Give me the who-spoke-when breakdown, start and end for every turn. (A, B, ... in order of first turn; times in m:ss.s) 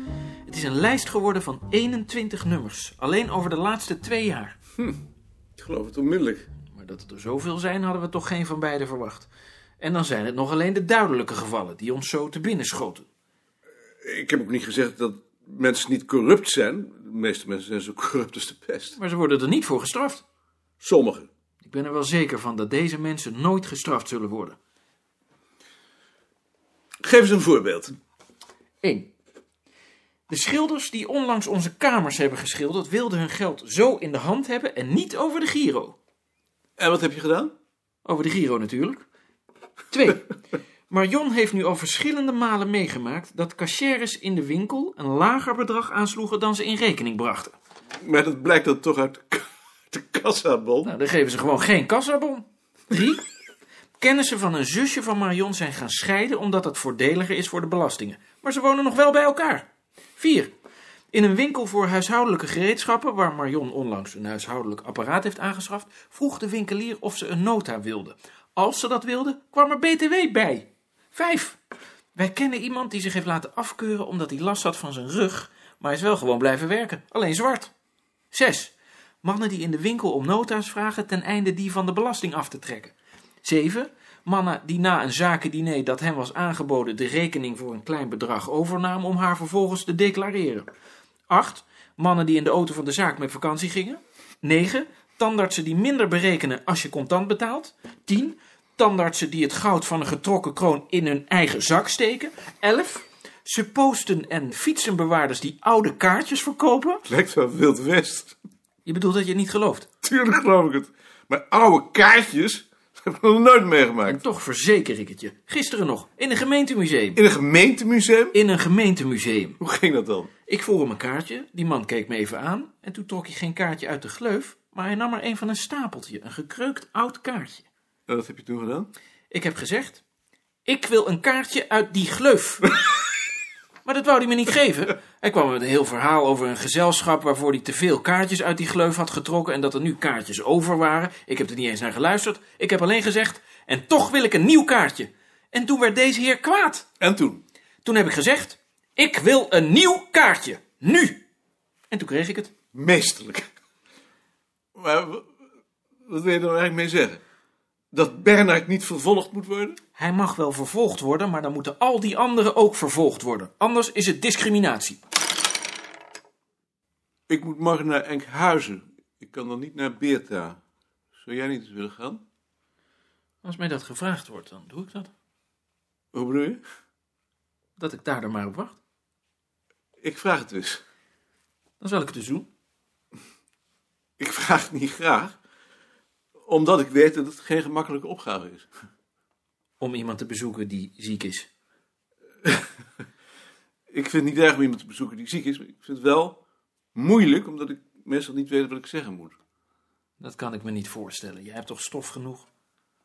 0:00.5-0:04.6 A
0:05.6-0:06.4 B
0:06.7-0:09.3 A
0:09.8-0:13.1 A
0:14.0-0:19.0 B
0:19.0-0:20.2 A
0:20.8-0:21.3 B
0:21.6-0:24.6 A
0:27.0-0:27.9 B
0:28.8-0:29.1 A
0:30.3-0:36.0 A
0:36.8-0:37.5 B
0:38.0-0:39.0 A
0:39.9-0:40.3 A
0:40.9-0:47.6 A
0:48.0-0:50.9 B
0:50.8-0:53.2 A
0:54.0-1:00.5 A
1:01.1-1:11.6 A
1:12.2-1:17.7 A
1:18.3-1:30.7 A
1:31.3-1:47.1 A
1:47.1-1:48.4 B
1:48.8-1:49.9 A
1:50.0-1:54.2 B
1:54.1-1:57.2 A
1:57.2-1:58.4 B
1:58.3-1:59.6 A
1:59.6-2:00.3 B
2:00.5-2:07.7 A
2:08.1-2:08.9 B
2:09.3-2:10.0 A
2:10.6-2:12.7 A
2:13.8-2:26.8 A
2:27.0-2:27.4 B
2:27.8-2:31.2 A
2:31.9-2:32.5 A
2:32.7-2:33.5 B
2:34.8-2:35.3 B
2:36.1-2:37.2 B
2:37.9-2:39.8 B
2:40.0-2:45.0 A
2:47.3-2:50.6 B
2:51.2-2:52.2 B
2:53.4-2:55.1 A
2:56.1-2:56.6 B
2:57.8-2:58.8 A
3:00.0-3:00.8 B
3:01.8-3:02.5 A
3:04.2-3:05.3 B
3:06.5-3:08.7 B
3:09.8-3:11.5 A
3:13.9-3:16.4 B
3:17.0-3:19.4 B
3:20.2-3:22.5 A